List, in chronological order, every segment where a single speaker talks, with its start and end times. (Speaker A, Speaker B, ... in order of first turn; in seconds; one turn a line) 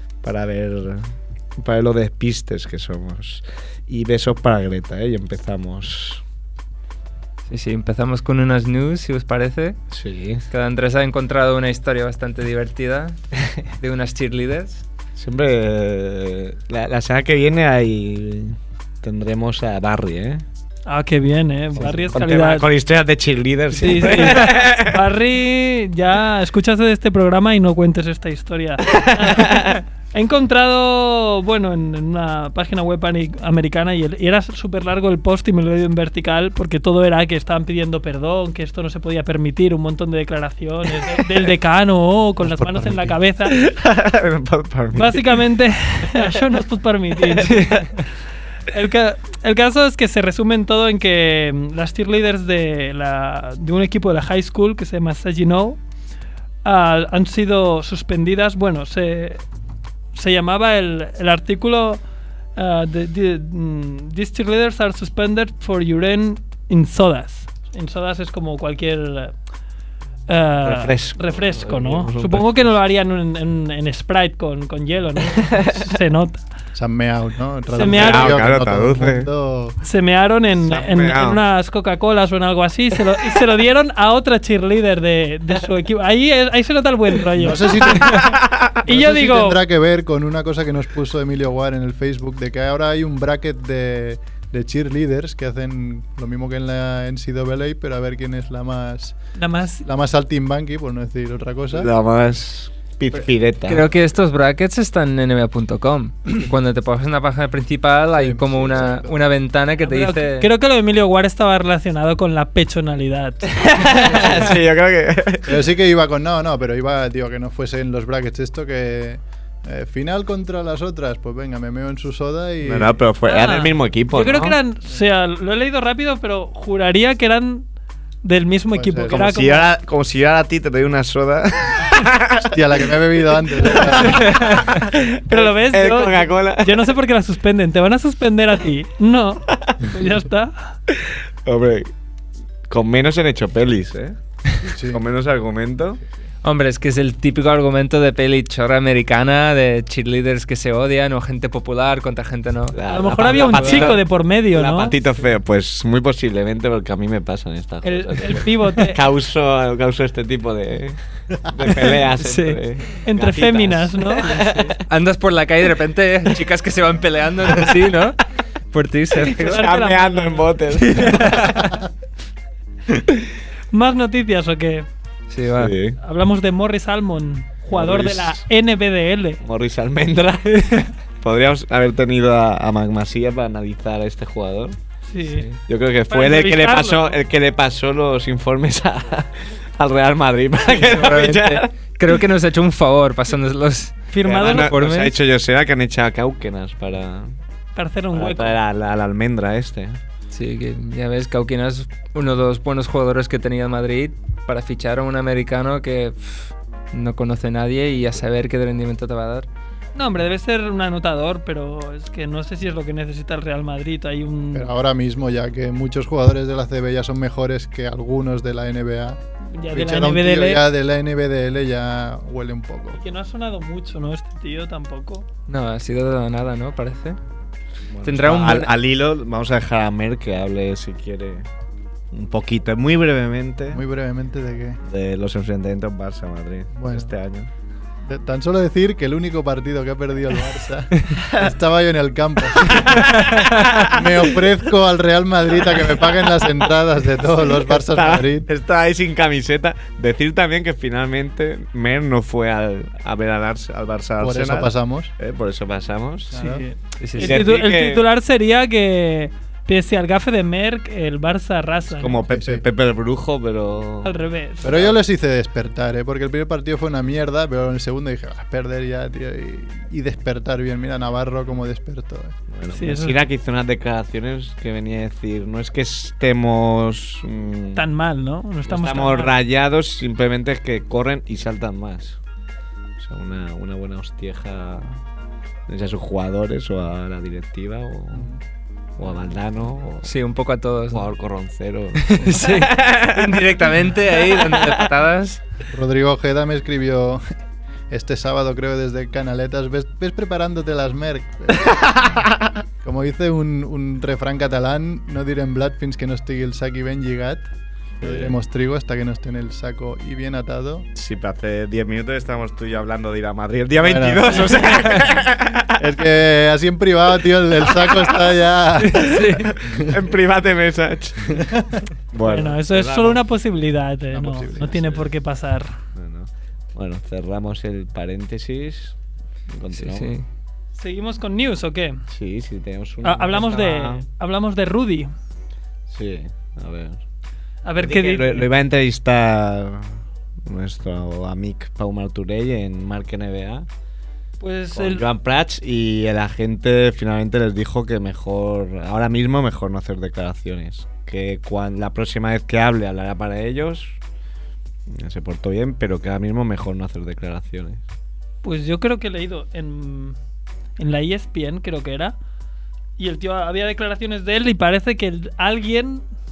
Speaker A: 0.2-6.2
Speaker B: 7.5-9.8
Speaker A: 9.9-10.4
Speaker B: 10.5-13.2
Speaker B: 13.8-14.8
Speaker A: 15.2-20.4
Speaker C: 20.9-22.7
Speaker A: 21.7-25.1
Speaker C: 23.8-43.6
Speaker A: 28.9-29.8
Speaker A: 42.4-45.4
Speaker C: 44.9-47.9
Speaker A: 47.3-47.9
Speaker C: 48.7-55.8
Speaker C: 56.6-59.4
Speaker C: 60.1-62.0
Speaker C: 62.6-69.3
Speaker C: 70.3-76.4
Speaker A: 70.6-72.8
Speaker A: 75.5-75.9
Speaker D: 76.8-79.8
Speaker C: 77.7-78.4
Speaker A: 77.7-79.3
Speaker C: 79.8-88.2
Speaker A: 80.6-81.4
Speaker D: 87.4-99.2
Speaker A: 87.8-88.8
Speaker C: 88.9-89.6
Speaker C: 99.4-99.9
Speaker D: 99.8-101.9
Speaker A: 101.7-103.9
Speaker B: 103.7-110.5
Speaker D: 108.2-109.1
Speaker C: 109.8-114.4
Speaker A: 113.6-115.7
Speaker D: 115.5-123.0
Speaker A: 122.6-124.6
Speaker C: 123.2-127.7
Speaker C: 128.2-129.7
Speaker D: 128.8-129.3
Speaker A: 129.1-132.6
Speaker D: 132.4-134.6
Speaker A: 133.3-137.0
Speaker C: 135.3-140.8
Speaker A: 139.5-139.9
Speaker A: 140.9-141.9
Speaker A: 142.7-144.2
Speaker D: 144.6-145.0
Speaker A: 144.8-146.0
Speaker B: 146.4-154.0
Speaker A: 152.7-164.8
Speaker C: 152.9-154.9
Speaker C: 157.8-159.0
Speaker C: 162.2-164.3
Speaker B: 164.8-168.2
Speaker B: 168.7-169.7
Speaker A: 169.3-171.8
Speaker C: 169.4-170.5
Speaker B: 171.0-171.8
Speaker C: 173.7-174.9
Speaker B: 175.3-175.8
Speaker A: 175.6-176.0
Speaker C: 176.0-179.4
Speaker A: 177.7-178.4
Speaker A: 179.4-180.6
Speaker B: 180.6-180.9
Speaker A: 181.2-184.8
Speaker C: 185.1-185.4
Speaker A: 185.7-192.2
Speaker C: 186.1-187.2
Speaker B: 190.8-195.1
Speaker C: 194.1-194.7
Speaker A: 194.2-197.3
Speaker C: 197.8-198.6
Speaker A: 198.1-200.0
Speaker B: 200.3-209.5
Speaker C: 209.9-214.7
Speaker D: 214.5-219.2
Speaker C: 219.5-220.6
Speaker D: 219.7-223.0
Speaker C: 223.0-225.2
Speaker B: 225.5-227.2
Speaker A: 227.9-231.5
Speaker B: 228.0-228.7
Speaker A: 232.1-233.8
Speaker D: 233.7-234.8
Speaker A: 234.8-237.5
Speaker D: 236.8-237.1
Speaker D: 238.1-248.4
Speaker A: 241.1-241.6
Speaker A: 242.6-244.6
Speaker A: 245.5-256.5
Speaker D: 254.2-255.1
Speaker D: 256.3-256.6
Speaker C: 256.4-262.2
Speaker B: 257.0-257.4
Speaker A: 257.1-258.0
Speaker A: 262.0-264.1
Speaker D: 262.3-262.6
Speaker C: 264.0-264.9
Speaker D: 264.6-272.4
Speaker A: 272.5-277.9
Speaker C: 272.7-273.2
Speaker C: 277.7-279.4
Speaker A: 278.6-282.2
Speaker A: 283.0-285.0
Speaker A: 285.7-288.3
Speaker A: 289.0-290.1
Speaker B: 290.1-291.1
Speaker A: 290.9-294.9
Speaker B: 292.0-295.4
Speaker D: 295.7-297.2
Speaker D: 297.9-302.3
Speaker A: 301.8-302.5
Speaker D: 302.8-307.5
Speaker D: 308.0-310.9
Speaker A: 308.0-308.4
Speaker A: 310.9-315.8
Speaker D: 313.8-314.6
Speaker D: 315.8-319.1
Speaker A: 317.7-318.3
Speaker B: 318.8-319.5
Speaker A: 318.9-321.5
Speaker A: 322.1-323.2
Speaker C: 322.2-325.8
Speaker A: 324.2-325.1
Speaker D: 324.2-324.6
Speaker A: 325.9-329.0
Speaker A: 329.5-330.1
Speaker B: 329.7-330.3
Speaker C: 330.7-332.0
Speaker A: 332.1-334.1
Speaker C: 333.0-335.1
Speaker A: 335.9-337.0
Speaker C: 337.6-338.5
Speaker A: 337.8-343.7
Speaker C: 344.4-345.1
Speaker A: 344.7-354.0
Speaker A: 354.9-357.8
Speaker C: 358.4-360.2
Speaker C: 360.8-362.2
Speaker C: 363.0-366.0